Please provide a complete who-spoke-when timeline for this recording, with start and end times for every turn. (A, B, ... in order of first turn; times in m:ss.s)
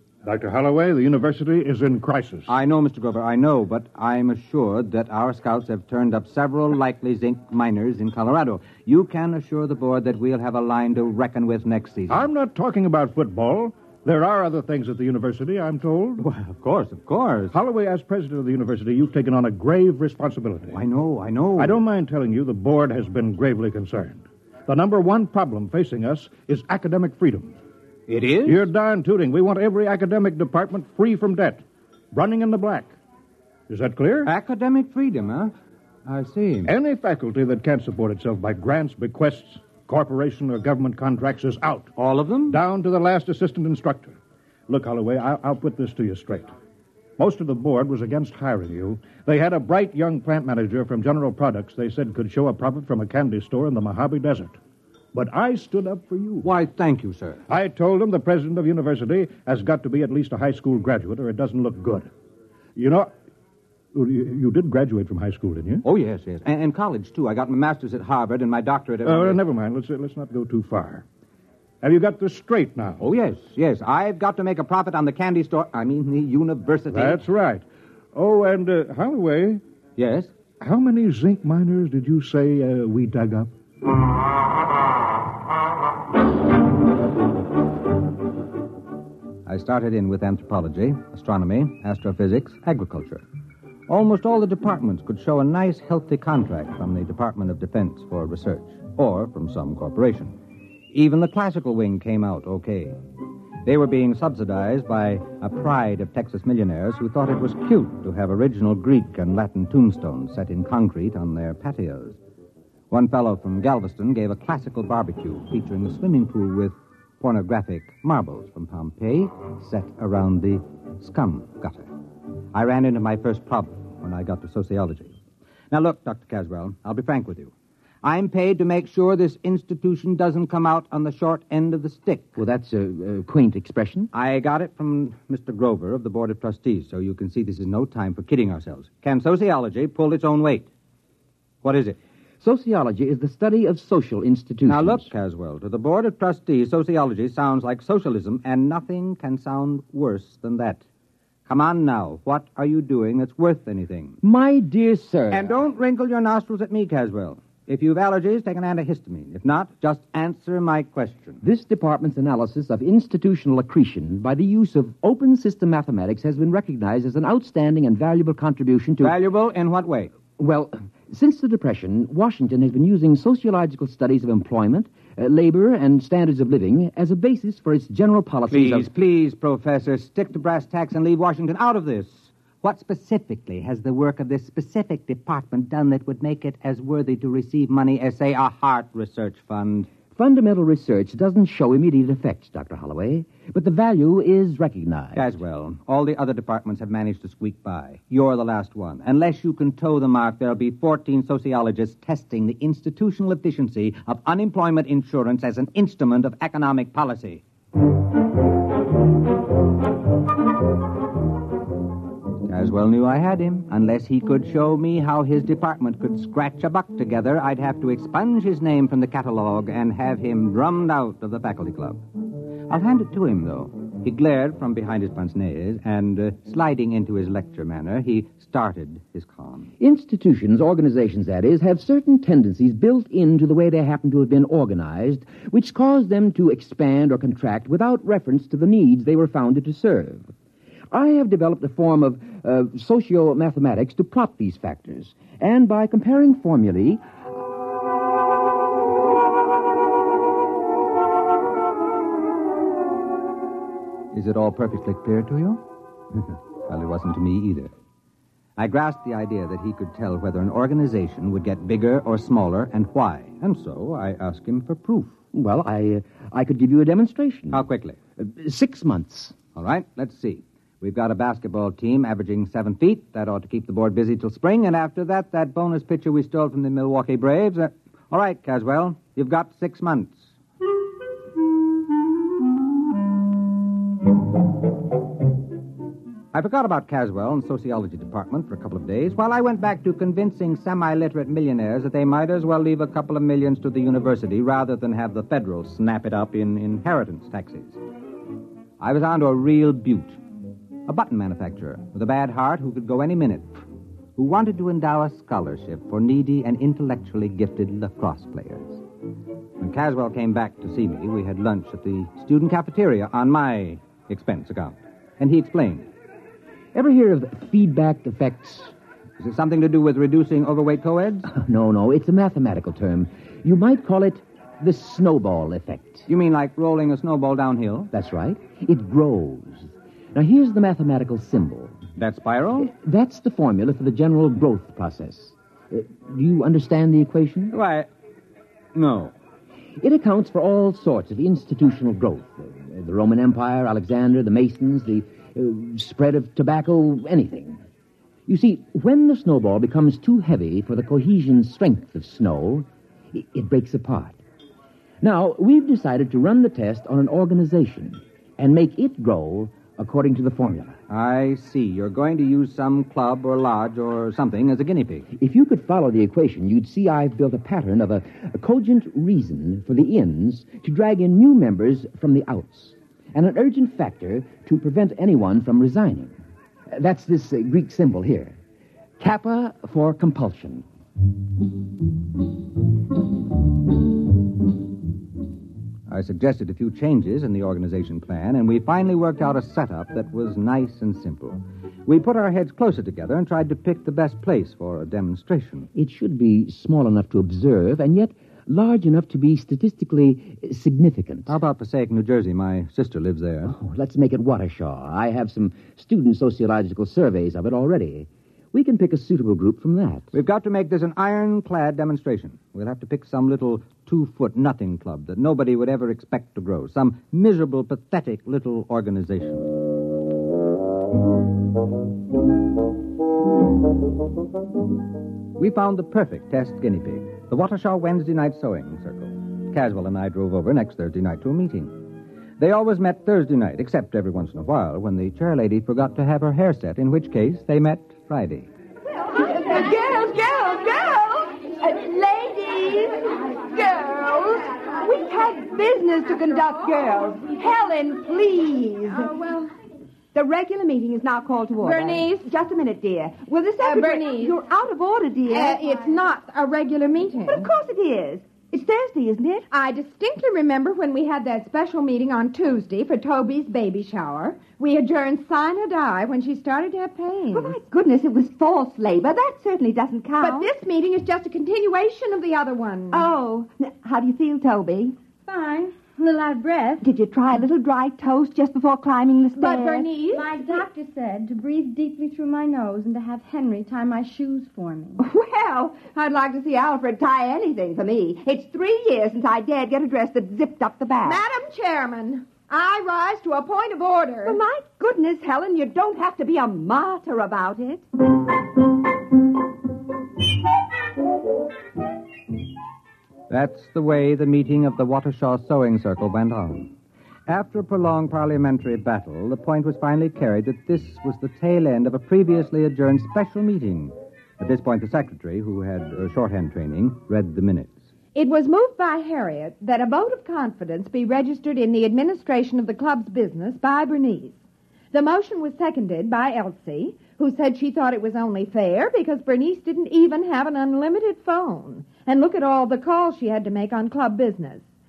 0:00.2-0:02.5 A
0:02.5-0:12.3 B
0:12.1-0:16.2 A
0:16.2-0:17.6 B
0:17.5-0:20.8 A
0:20.7-0:21.8 B
0:21.6-0:27.6 A
0:28.1-0:28.7 B
0:28.4-0:32.9 A
0:33.7-0:34.3 A
0:34.2-0:35.5 B
0:36.1-0:36.7 B
0:36.6-0:41.9 A
0:42.0-0:42.6 B
0:42.5-0:46.5 A
0:47.2-0:54.6 A
0:55.1-0:56.5 A
0:56.4-0:57.4 B
0:57.5-1:02.1 A
1:02.8-1:03.1 A
1:03.9-1:05.8 A
1:05.8-1:09.4 B
1:09.0-1:11.0 A
1:11.8-1:13.0 A
1:13.0-1:17.2 B
1:16.9-1:17.6 A
1:18.2-1:19.6 A
1:20.0-1:20.3 B
1:20.6-1:23.5 A
1:29.5-1:33.2 B
1:33.9-1:40.4 B
1:40.9-1:43.0 B
1:43.6-1:52.2 B
1:52.9-2:01.9 B
2:02.5-2:05.2 B
2:05.7-2:12.4 B
2:12.4-2:14.1 C
2:14.1-2:20.7 B
2:21.6-2:22.0 B
2:22.4-2:25.1 C
2:24.7-2:30.8 B
2:31.5-2:34.2 B
2:34.2-2:35.6 C
2:35.3-2:41.4 B
2:41.4-2:49.2 C
2:49.0-2:50.1 B
2:50.4-2:58.9 C
2:58.5-3:09.9 B
3:10.2-3:15.3 C
3:15.1-3:27.4 B
3:32.5-3:42.0 B
3:42.7-3:49.7 B
3:49.8-4:00.3 C
4:00.9-4:07.0 C
4:14.1-4:15.6 B
4:16.1-4:17.7 B
4:18.6-4:25.2 B
4:25.3-4:27.6 C
4:27.5-4:28.0 B
4:28.2-4:29.4 C
4:29.6-4:40.3 B
4:46.3-4:57.8 B
4:58.8-5:00.2 B
5:00.9-5:03.6 B
5:04.2-5:08.8 B
5:09.6-5:15.9 B
5:16.7-5:18.7 C
5:19.2-5:21.3 B
5:21.2-5:26.1 C
5:26.1-5:27.9 B
5:27.9-5:31.8 C
5:32.0-5:32.7 B
5:32.6-5:37.5 C
5:37.5-5:37.9 B
5:38.8-5:39.2 B
5:39.8-5:47.6 C
5:48.3-5:54.2 C
5:55.0-6:00.8 C
6:00.9-6:05.1 B
6:05.2-6:16.2 C
6:16.7-6:18.4 C
6:19.0-6:20.7 C
6:25.9-6:35.7 B
6:35.8-6:41.4 C
6:41.3-6:43.6 B
6:43.4-6:50.1 C
6:50.1-6:59.5 B
7:05.4-7:18.5 B
7:19.1-7:29.2 D
7:29.0-7:29.4 E
7:30.1-7:35.6 D
7:31.6-7:32.3 E
7:33.6-7:34.4 E
7:35.3-7:37.5 E
7:37.2-7:39.5 D
7:39.5-7:47.6 E
7:47.3-7:50.5 D
7:50.2-7:53.1 E
7:52.9-7:55.0 D
7:55.2-7:56.8 F
7:56.8-7:59.9 D
7:59.4-8:00.6 E
8:00.1-8:05.0 F
8:05.0-8:11.2 D
8:11.0-8:14.4 E
8:14.2-8:17.9 D
8:23.3-8:26.7 B
8:27.3-8:37.7 B
8:38.2-8:44.4 E
8:44.9-8:54.6 E